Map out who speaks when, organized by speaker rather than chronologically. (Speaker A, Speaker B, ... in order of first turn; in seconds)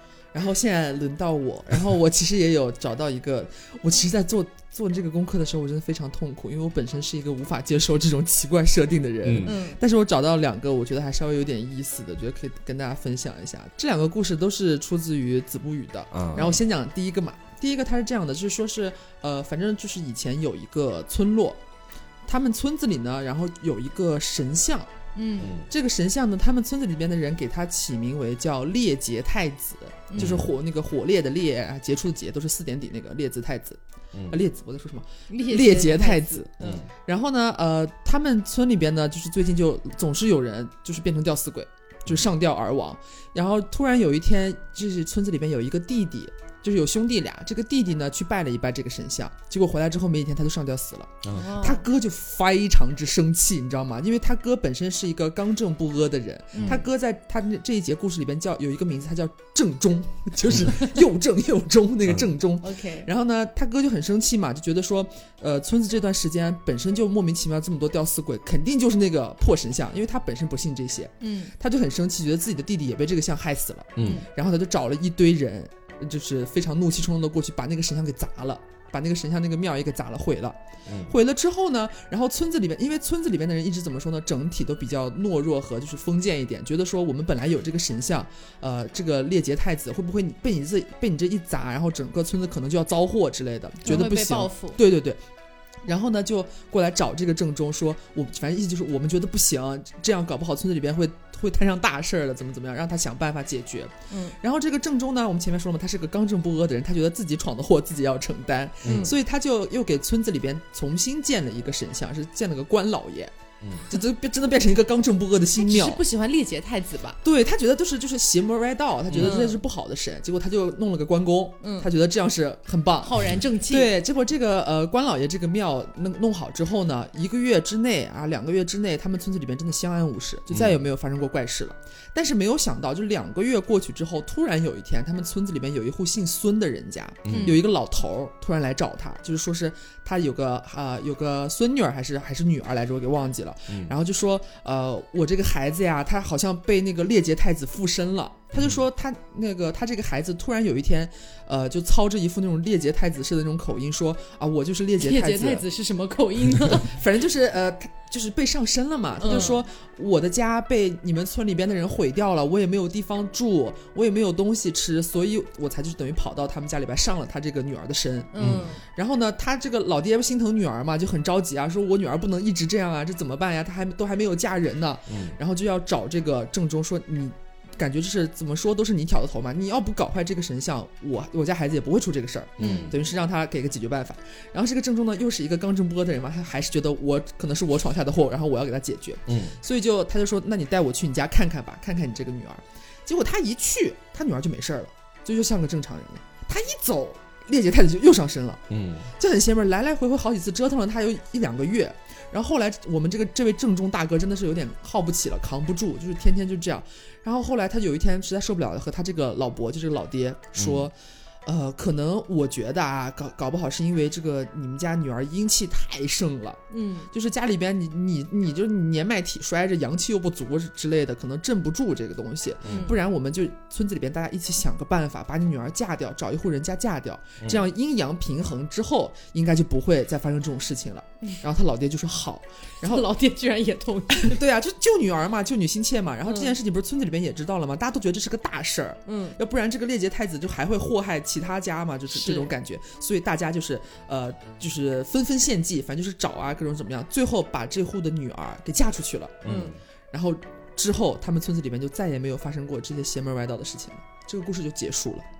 Speaker A: 0.3-21.6, 22.3-24.9, 25.7-95.2, 95.8-113.3, 113.9-116.0, 117.2-155.7, 156.7-198.6, 199.2-233.1, 234.2-249.6, 250.1-255.3
Speaker B: 9.2-9.6, 16.1-16.6, 25.4-25.7, 30.2-30.5, 34.1-34.4, 36.6-36.9, 51.2-51.5, 60.5-60.7, 62.1-62.3, 74.0-74.3, 80.9-81.1, 108.8-109.1, 113.6-113.9, 119.1-119.4, 130.5-130.8, 137.3-137.6, 143.7-143.9, 148.6-148.8, 168.4-168.7, 175.1-175.4, 182.6-183.0, 189.3-189.6, 198.7-199.1, 210.6-210.9, 222.6-222.9, 227.4-227.7, 249.4-249.8
Speaker C: 9.4-9.8, 25.1-25.5, 30.1-30.4, 35.3-36.8, 51.3-51.9, 56.5-56.9, 62.6-63.1, 71.2-71.5, 74.0-74.3, 93.8-94.8, 104.1-104.4, 108.9-109.1, 115.6-117.2, 119.2-119.6, 121.6-121.9, 123.0-123.9, 137.3-137.6, 155.0-156.9, 159.2-159.6, 168.3-168.8, 182.6-182.9, 216.7-217.1, 222.7-223.0, 232.8-234.4, 236.3-236.6, 239.1-239.4, 242.1-242.5, 249.5-249.7